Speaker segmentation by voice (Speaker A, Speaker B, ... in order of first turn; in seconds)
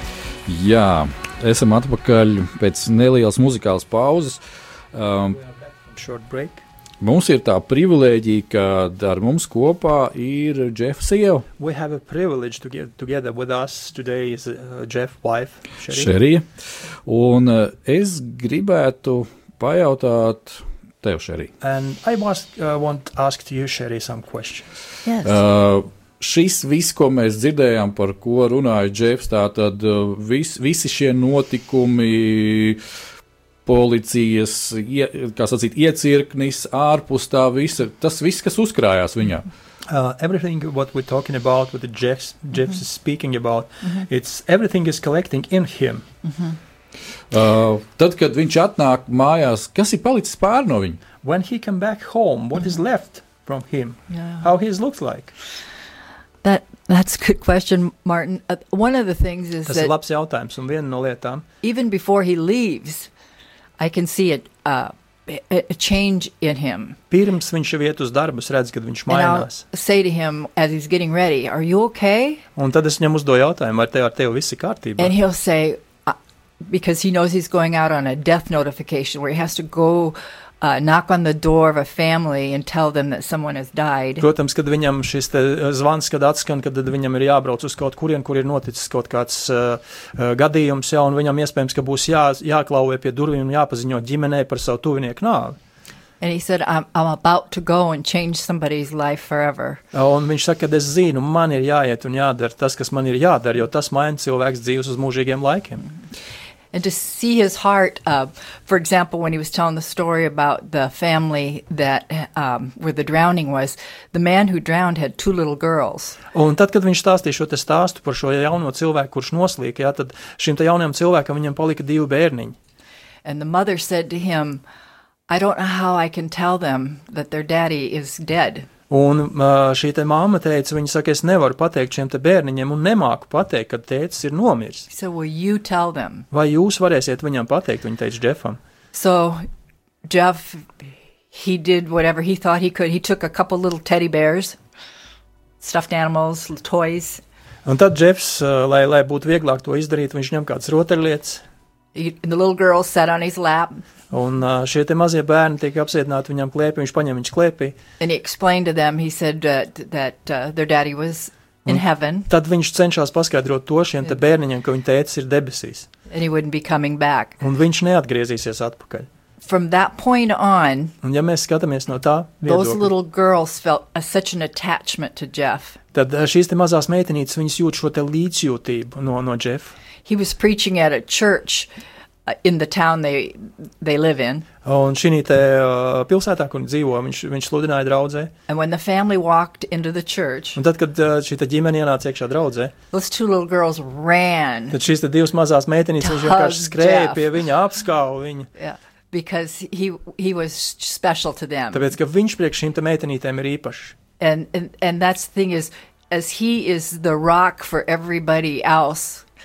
Speaker A: 0.5-4.4, 4.9-5.4, 7.0-11.4, 15.9-16.4, 17.1-21.5, 25.2-32.8, 33.6-39.5, 47.3-51.0
Speaker B: 5.9-6.6, 11.6-16.1, 21.6-24.7, 39.9-46.0, 51.2-55.3, 59.6-61.4, 67.1-69.6, 72.6-75.1, 84.2-95.6, 99.9-105.8, 116.3-122.6, 128.9-134.9, 136.3-138.6, 147.6-151.4, 154.1-157.8, 161.7-165.9, 167.4-169.1, 171.0-172.9, 175.9-179.7, 184.6-188.3, 190.6-192.7, 194.7-198.5, 201.7-203.9
Speaker C: 25.1-25.4, 46.2-46.6, 54.1-54.4, 56.4-59.9, 61.6-63.1, 63.8-67.0, 69.1-72.4, 75.0-84.2, 96.2-99.8, 106.7-116.2, 123.2-124.6, 125.3-128.7, 134.9-136.2, 138.9-139.4, 140.1-140.7, 141.3-144.6, 145.6-147.2, 151.9-153.8, 158.0-162.3, 166.1-167.4, 169.4-170.9, 172.4-175.8, 180.0-181.7, 182.3-184.4, 188.5-190.6, 192.9-194.8, 196.0-197.2, 198.6-201.9, 204.2-209.2